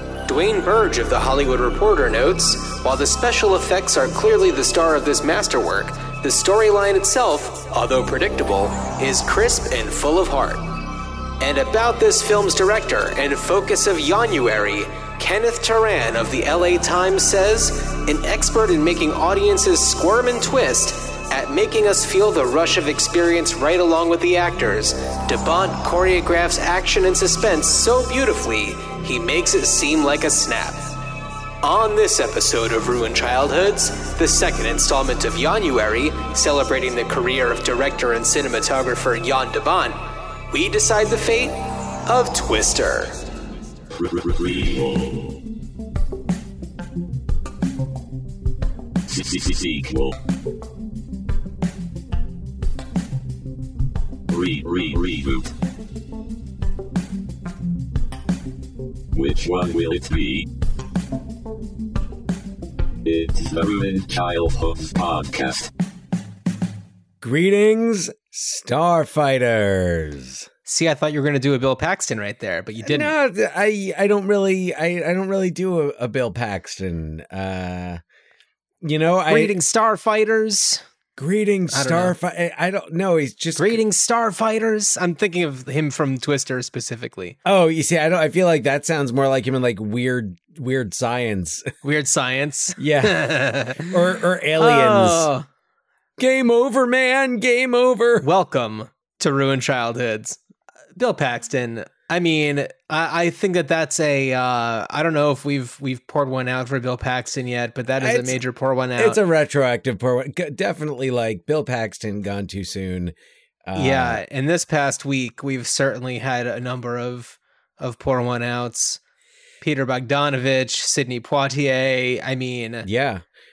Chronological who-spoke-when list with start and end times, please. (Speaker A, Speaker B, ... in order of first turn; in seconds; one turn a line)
Speaker A: 0.3-10.6
Speaker A: 11.4-30.9
Speaker A: 31.6-43.2
Speaker B: 44.0-45.4
Speaker B: 49.1-50.2
Speaker B: 54.3-55.5
Speaker B: 59.1-60.5
Speaker B: 63.0-65.7
Speaker C: 67.2-70.5
Speaker A: 70.7-73.1
Speaker C: 72.8-78.0
Speaker C: 78.8-79.6
Speaker A: 79.3-80.8
Speaker C: 81.2-83.8
Speaker A: 81.7-82.1
Speaker A: 83.6-87.4
Speaker C: 87.5-91.7
Speaker A: 91.8-94.0
Speaker C: 92.8-95.3
Speaker A: 94.6-95.5
Speaker C: 96.2-98.3
Speaker A: 98.2-100.4
Speaker A: 101.0-109.2
Speaker C: 108.0-108.4
Speaker C: 109.0-114.2
Speaker A: 113.8-119.0
Speaker A: 119.6-122.9
Speaker C: 122.8-123.2